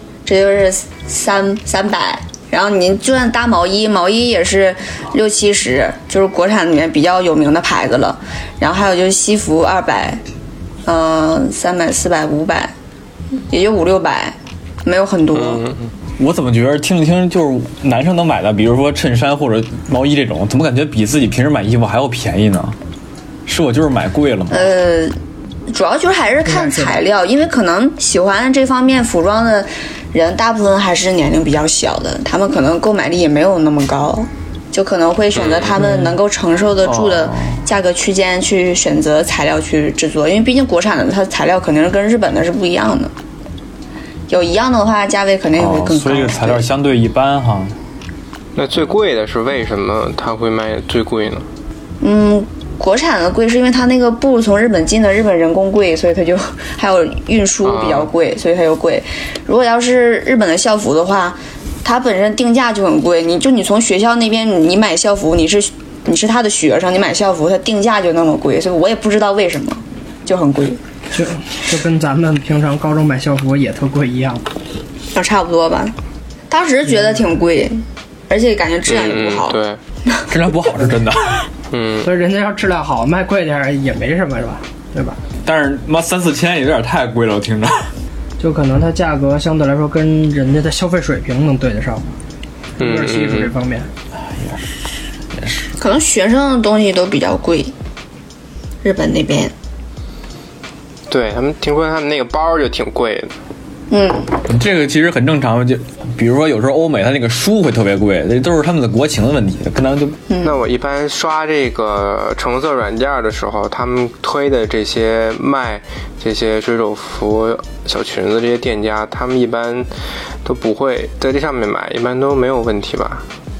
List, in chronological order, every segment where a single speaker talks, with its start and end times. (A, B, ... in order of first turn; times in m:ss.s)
0:00.2-0:10.2 A
0:10.9-0:12.7 A
0:13.5-0:15.6 A
0:15.3-0:15.9 B
0:16.2-0:22.8 C
0:23.5-0:24.8 C
0:24.5-0:25.2 A
0:25.7-0:43.1 A
0:26.5-0:27.0 D
0:35.4-0:35.7 B
0:35.7-0:36.2 D
0:36.8-0:37.6 C
0:44.3-0:46.6 A
0:45.6-0:47.8 C
0:48.6-0:51.5 B
0:52.0-1:10.8 A
0:57.6-0:58.1 B
1:11.1-1:14.5 D
1:15.1-1:16.0 A
1:16.5-1:20.3 A
1:18.8-1:19.8 B
1:20.3-1:21.5 C
1:21.7-1:22.1 B
1:22.0-1:25.2 D
1:25.4-1:27.9 C
1:28.4-1:32.1 D
1:32.8-1:33.9 D
1:32.8-1:33.5 B
1:34.3-1:35.7 C
1:35.8-1:37.7 A
1:38.8-1:39.5 A
1:41.1-1:43.3 B
1:43.9-1:44.3 A
1:44.4-1:50.2 C
1:50.3-1:50.6 A
1:50.4-1:59.9 B
2:00.4-2:03.3 B